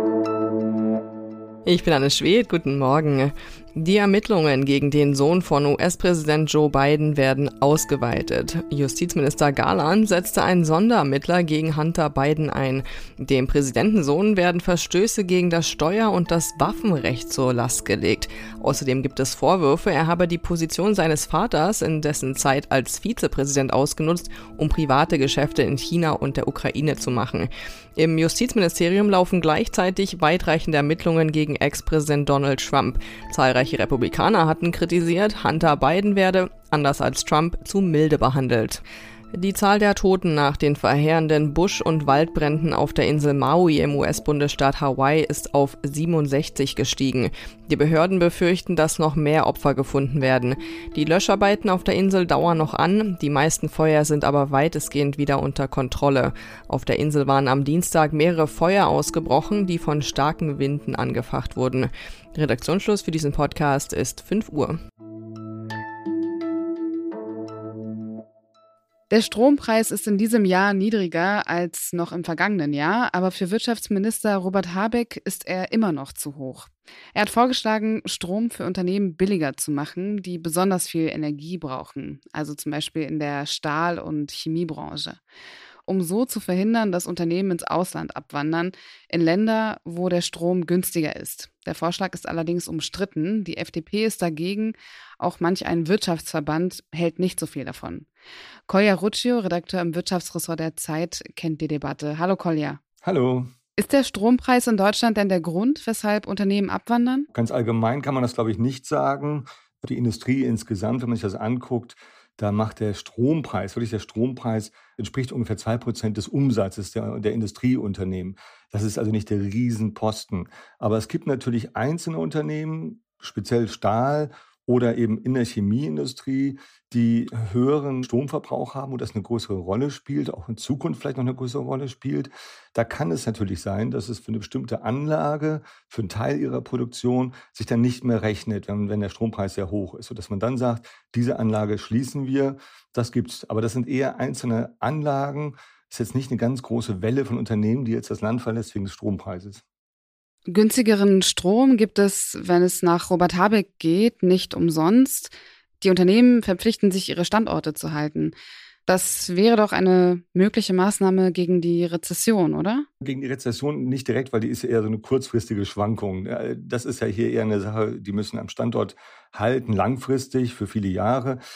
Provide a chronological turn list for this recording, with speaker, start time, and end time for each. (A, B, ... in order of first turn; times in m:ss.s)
0:01.6-1:04.8 A
1:09.1-1:25.2 B
1:25.8-1:38.1 B
1:38.7-1:42.8 B
1:43.0-1:43.5 C
1:43.8-1:47.3 B
1:47.3-2:29.6 C
2:30.5-2:38.3 B
2:38.8-2:42.8 B
2:43.0-2:51.4 C